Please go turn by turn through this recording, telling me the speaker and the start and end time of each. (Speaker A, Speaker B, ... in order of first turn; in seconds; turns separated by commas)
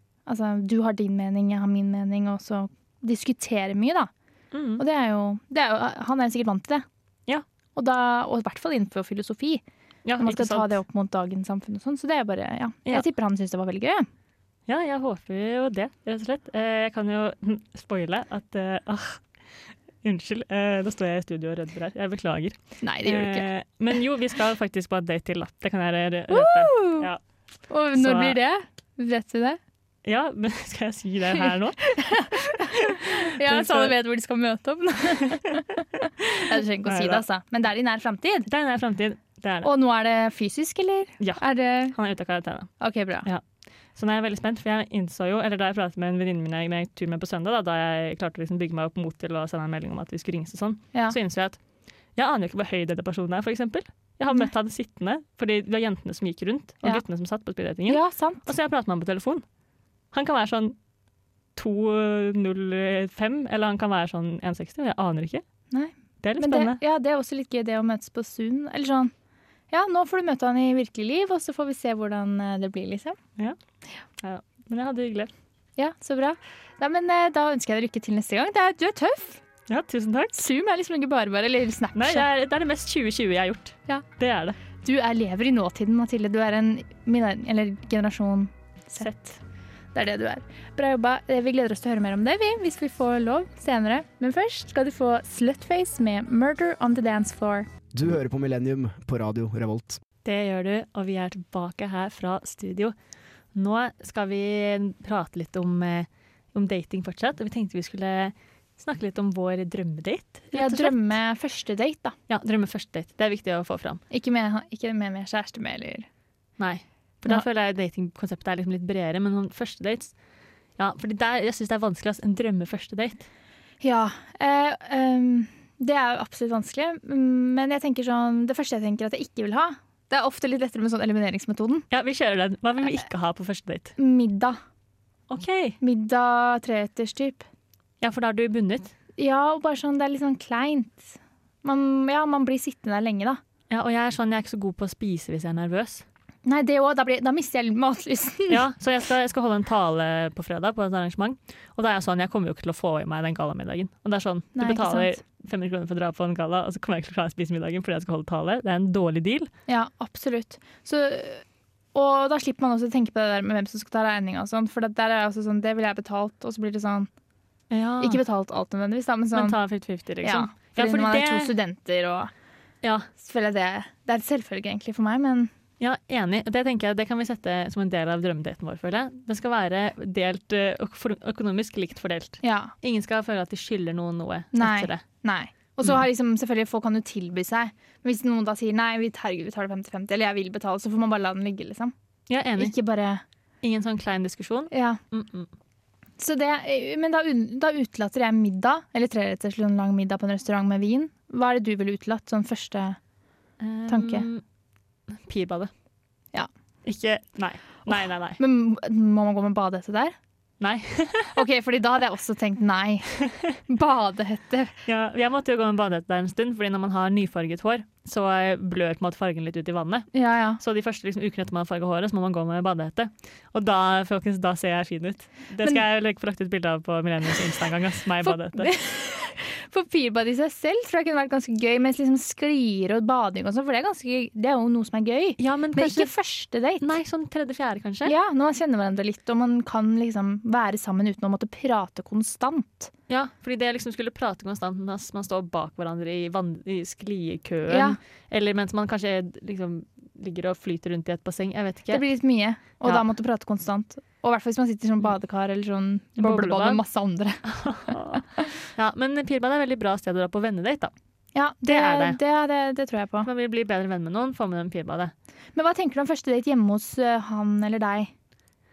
Speaker A: 0.2-4.1, Speaker B: 4.5-4.8, Speaker A: 4.8-6.8, Speaker A: 7.8-9.6, Speaker B: 10.0-10.7, Speaker A: 10.2-14.1, Speaker B: 14.7-19.2, Speaker B: 20.0-27.2, Speaker A: 22.8-23.5, Speaker A: 26.3-27.1, Speaker A: 27.7-29.6, Speaker B: 27.9-28.4, Speaker B: 30.0-34.0, Speaker A: 31.4-38.5, Speaker B: 36.2-37.2, Speaker B: 38.5-39.7, Speaker A: 39.6-41.9, Speaker B: 41.2-42.7, Speaker A: 42.8-43.3, Speaker B: 43.9-51.6, Speaker B: 52.1-59.4, Speaker A: 57.9-58.4, Speaker B: 60.1-60.8, Speaker B: 61.5-65.4, Speaker A: 65.7-69.1, Speaker B: 66.2-66.8, Speaker A: 69.7-73.2, Speaker B: 74.2-75.3, Speaker A: 75.8-79.4, Speaker B: 79.7-80.4, Speaker A: 80.3-82.2, Speaker B: 81.9-84.6, Speaker A: 84.8-89.1, Speaker B: 89.0-89.4, Speaker A: 89.9-97.7, Speaker C: 97.9-100.0, Speaker B: 100.2-102.9, Speaker B: 103.5-111.1, Speaker A: 110.5-112.1, Speaker B: 112.3-114.0, Speaker A: 114.1-116.1, Speaker B: 116.6-120.1, Speaker B: 120.8-123.3, Speaker A: 123.8-131.8, Speaker B: 131.9-133.9, Speaker A: 134.0-134.6, Speaker B: 135.3-135.8, Speaker A: 135.8-137.4, Speaker B: 138.0-138.9, Speaker A: 139.2-143.4, Speaker B: 143.7-146.0, Speaker A: 146.4-148.6, Speaker B: 148.5-159.5, Speaker A: 154.6-155.1, Speaker A: 159.7-167.1, Speaker B: 167.7-168.2, Speaker A: 168.0-169.6, Speaker B: 169.3-171.5, Speaker A: 170.2-172.3, Speaker B: 172.8-173.1, Speaker A: 173.2-175.5, Speaker B: 175.8-185.0, Speaker A: 182.4-182.7, Speaker A: 184.5-191.9, Speaker B: 192.3-192.7, Speaker A: 192.6-193.2, Speaker B: 193.6-195.5, Speaker A: 194.7-195.0, Speaker A: 196.2-203.0, Speaker B: 203.6-204.4, Speaker A: 203.9-204.3, Speaker B: 205.1-205.7, Speaker B: 206.8-208.4, Speaker A: 208.4-210.1, Speaker B: 210.6-211.4, Speaker A: 211.3-213.1, Speaker A: 213.7-214.7, Speaker B: 214.8-228.7, Speaker A: 220.1-220.6, Speaker A: 228.2-236.9, Speaker B: 235.4-236.1, Speaker B: 236.8-238.1, Speaker A: 238.0-242.9, Speaker B: 243.1-252.0, Speaker A: 247.7-248.0, Speaker A: 251.9-258.4, Speaker B: 256.2-256.8, Speaker B: 257.4-260.9, Speaker A: 261.3-263.3, Speaker B: 261.6-262.2, Speaker B: 263.2-265.1, Speaker A: 265.5-268.1